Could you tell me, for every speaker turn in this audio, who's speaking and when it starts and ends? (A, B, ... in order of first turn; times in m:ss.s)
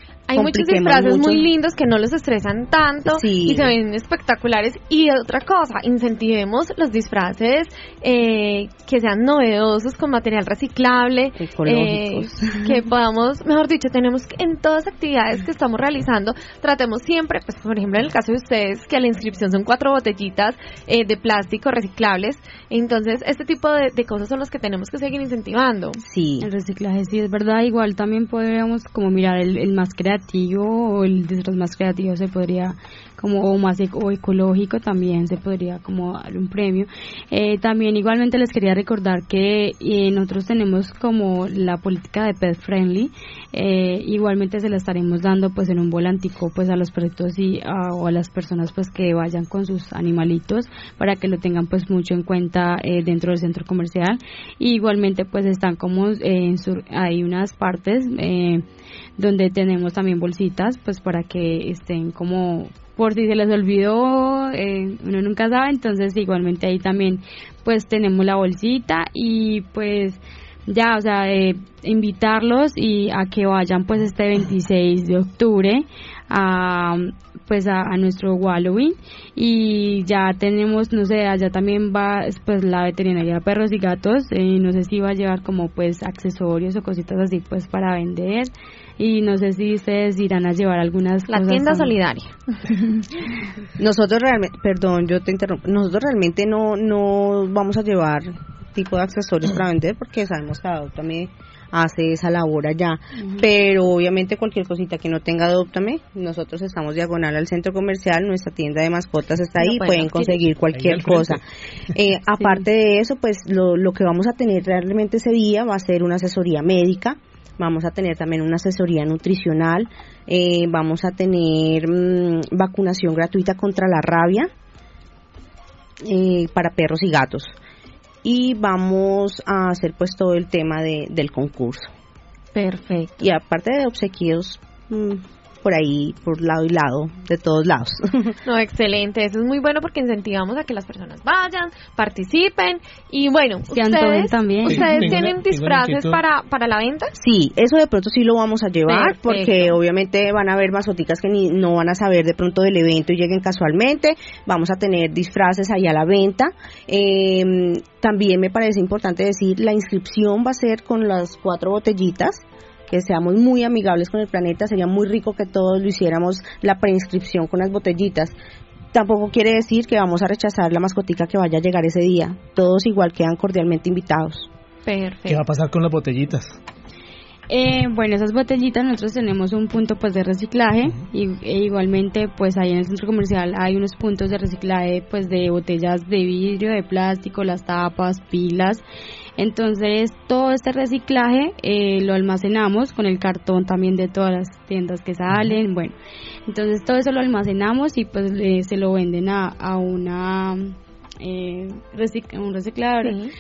0:00.3-0:26.0 A
0:00.3-0:01.5 B
0:03.1-0:03.8 B
0:11.4-0:12.7 B
0:26.0-0:26.5 B
0:26.4-0:58.6 C
0:59.2-1:31.9 C
1:31.3-1:32.3 A
1:33.8-1:51.4 B
1:49.6-1:50.4 A
1:50.7-1:51.4 D
1:51.9-2:04.5 B
2:06.0-2:07.5 B
2:08.2-2:11.9 B
2:12.6-2:13.2 A
2:13.2-2:18.4 B
2:18.5-2:27.1 A
2:23.7-2:25.2 C
2:24.6-2:26.2 D
2:27.2-2:48.4 B
2:28.9-2:29.8 A
2:48.9-2:54.5 B
2:54.9-2:55.4 A
2:55.3-2:56.6 D
2:57.5-3:08.8 C
3:09.4-3:16.0 C
3:16.5-3:23.2 C
3:23.0-3:23.3 A